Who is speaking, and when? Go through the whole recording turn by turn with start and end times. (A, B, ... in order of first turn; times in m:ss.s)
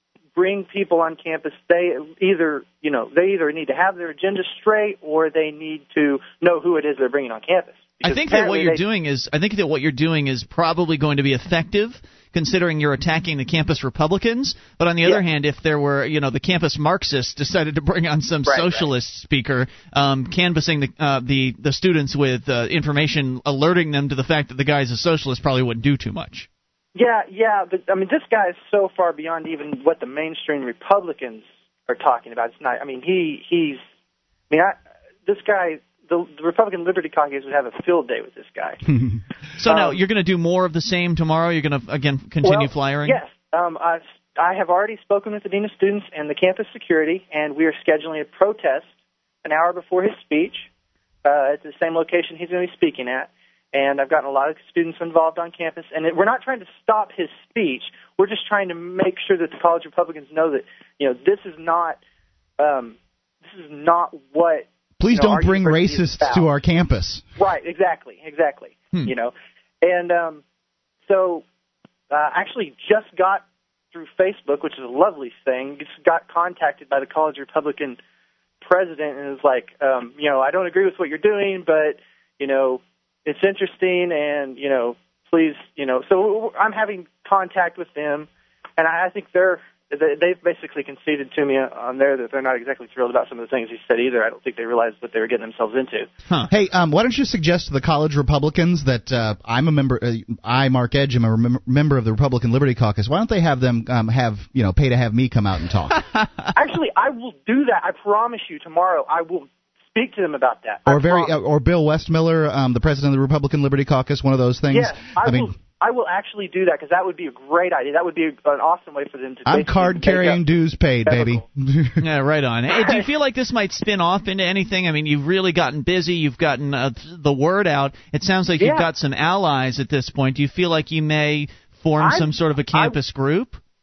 0:00.4-0:08.8 A
0:08.0-0:26.5 B
0:18.5-0:18.9 A
0:27.0-0:33.8 A
0:34.5-0:38.8 A
0:39.6-0:43.2 B
0:39.7-0:40.0 A
0:42.4-0:48.9 A
0:49.4-0:50.7 A
0:51.2-1:02.0 A
1:02.6-1:06.5 A
1:05.0-1:07.2 C
1:07.4-1:10.4 A
1:11.1-1:11.4 A
1:12.1-1:18.0 A
1:18.6-1:36.1 A
1:36.5-1:46.0 C
1:46.0-1:46.5 B
1:46.5-1:51.3 A
1:50.9-1:55.5 C
1:54.7-2:00.4 A
1:59.5-2:02.0 C
2:01.1-2:01.4 A
2:02.0-2:13.6 B
2:02.7-2:03.1 A
2:08.6-2:08.9 A
2:12.0-2:13.0 A